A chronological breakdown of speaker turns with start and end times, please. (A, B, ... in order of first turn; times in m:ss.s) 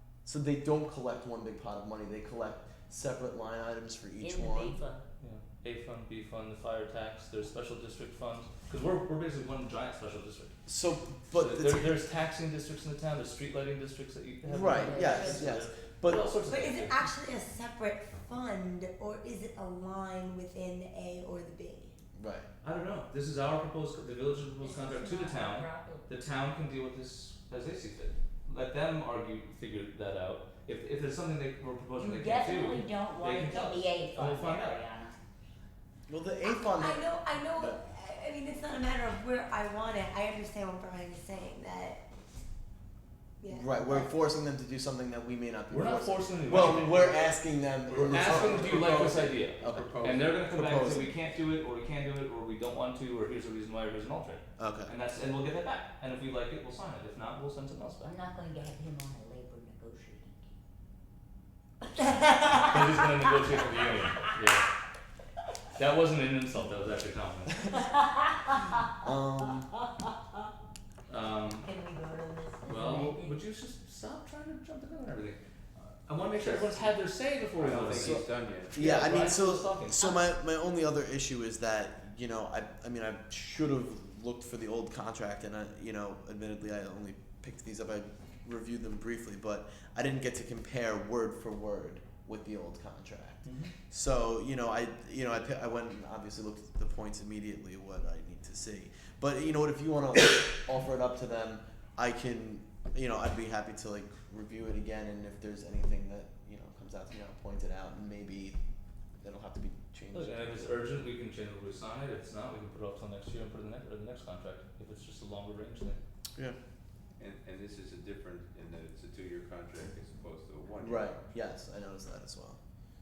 0:00.2-0:04.8 A
0:04.2-0:05.0 B
0:05.2-0:10.6 C
0:10.7-0:12.0 A
0:11.3-0:17.1 C
0:14.4-0:16.4 A
0:14.7-0:15.5 B
0:16.4-0:22.0 D
0:22.2-0:22.5 A
0:22.6-0:34.8 C
0:24.6-0:26.1 B
0:32.0-0:35.2 B
0:36.1-0:37.8 A
0:36.4-0:42.0 D
0:43.4-0:44.1 D
0:43.5-0:49.9 A
0:45.7-0:58.1 C
0:48.1-0:50.4 E
0:50.5-0:51.2 A
0:54.6-0:54.9 A
0:58.0-1:00.5 B
1:01.9-1:02.7 D
1:02.5-1:04.7 C
1:05.8-1:07.9 C
1:09.0-1:09.7 A
1:11.1-1:11.7 C
1:11.6-1:13.4 D
1:12.7-1:20.0 C
1:16.3-1:17.0 E
1:17.5-1:19.4 E
1:17.8-1:48.6 A
1:33.4-1:33.7 C
1:49.2-1:50.8 A
1:50.1-1:56.0 C
1:57.2-2:01.2 E
2:00.8-2:02.6 A